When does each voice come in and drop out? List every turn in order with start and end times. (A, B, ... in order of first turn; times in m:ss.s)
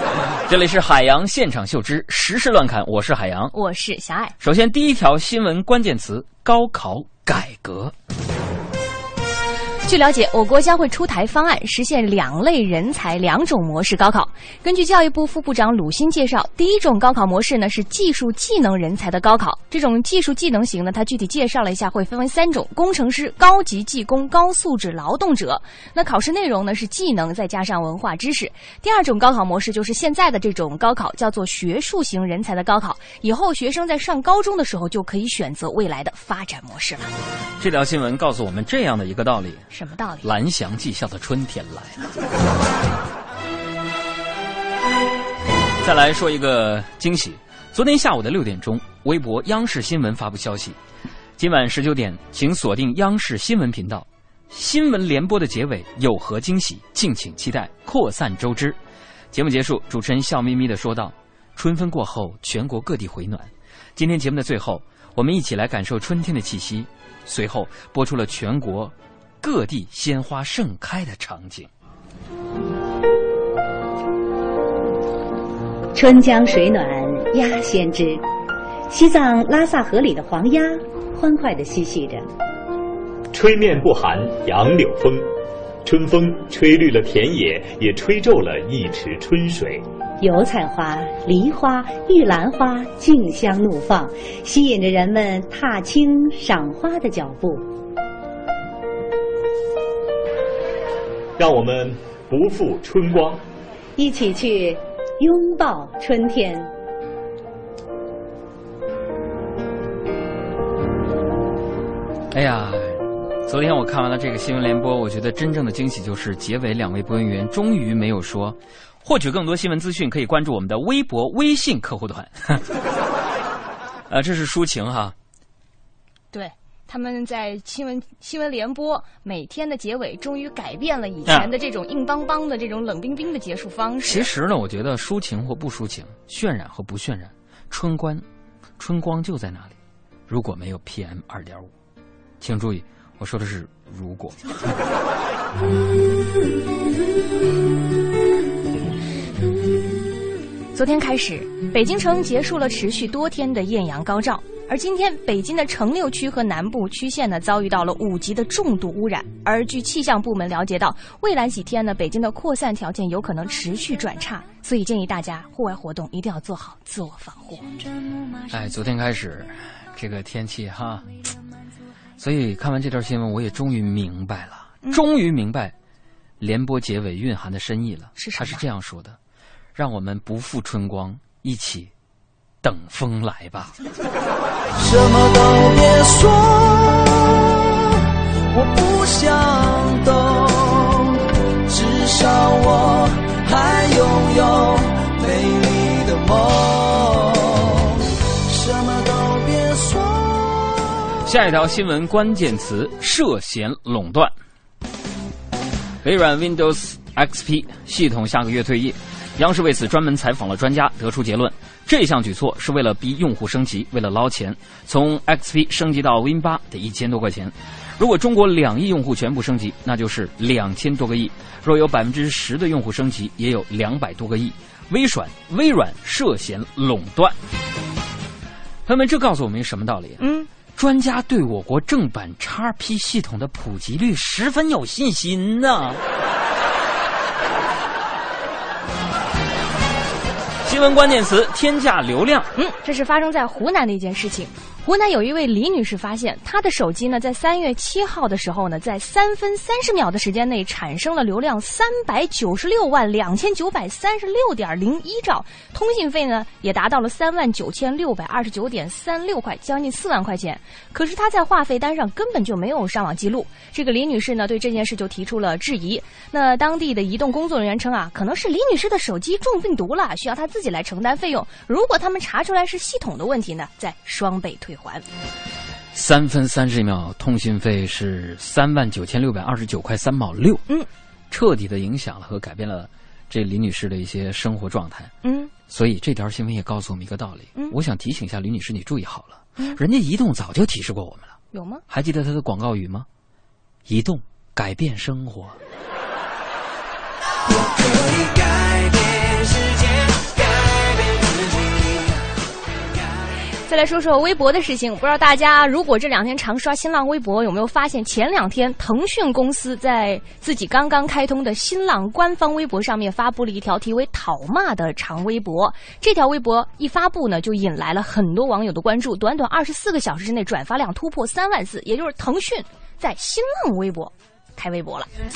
0:00.4-0:03.5 A
0:03.5-0:04.3 B
0:04.4-0:07.9 A
0:09.8-0:37.1 B
0:37.6-0:39.6 A
0:39.7-0:40.2 B
0:40.2-0:42.1 A
0:45.8-0:50.8 A
0:51.4-0:58.8 A
0:59.3-1:11.7 A
1:15.9-1:18.2 C
1:18.9-1:22.3 C
1:23.3-1:25.3 D
1:25.8-1:29.8 D
1:30.2-1:37.6 C
1:41.4-1:43.4 D
1:44.0-1:46.7 C
1:52.3-2:02.6 A
2:04.1-2:05.2 A
2:06.3-2:14.3 B
2:14.0-2:18.2 A
2:18.8-2:21.7 A
2:22.4-2:24.4 A
2:30.7-2:47.6 B
2:48.5-2:51.1 A
2:52.2-2:55.7 A
2:56.4-2:59.2 A
2:58.2-2:58.6 B
2:59.7-3:01.9 A
3:02.6-3:03.8 A
3:04.8-3:07.2 E
3:08.5-3:10.9 E
3:11.7-3:17.5 E
3:18.5-3:20.8 E
3:21.2-3:24.3 A
3:26.0-3:47.4 A
3:48.9-3:56.0 A
3:50.2-3:50.5 B
4:00.6-4:02.5 A
4:02.6-4:35.0 B
4:35.9-4:40.6 A
4:41.3-4:45.1 A
4:45.2-4:45.5 B
4:45.7-4:51.4 A
4:51.5-4:51.8 B
4:51.9-4:53.1 A
4:53.9-4:55.6 A
5:03.7-5:25.1 B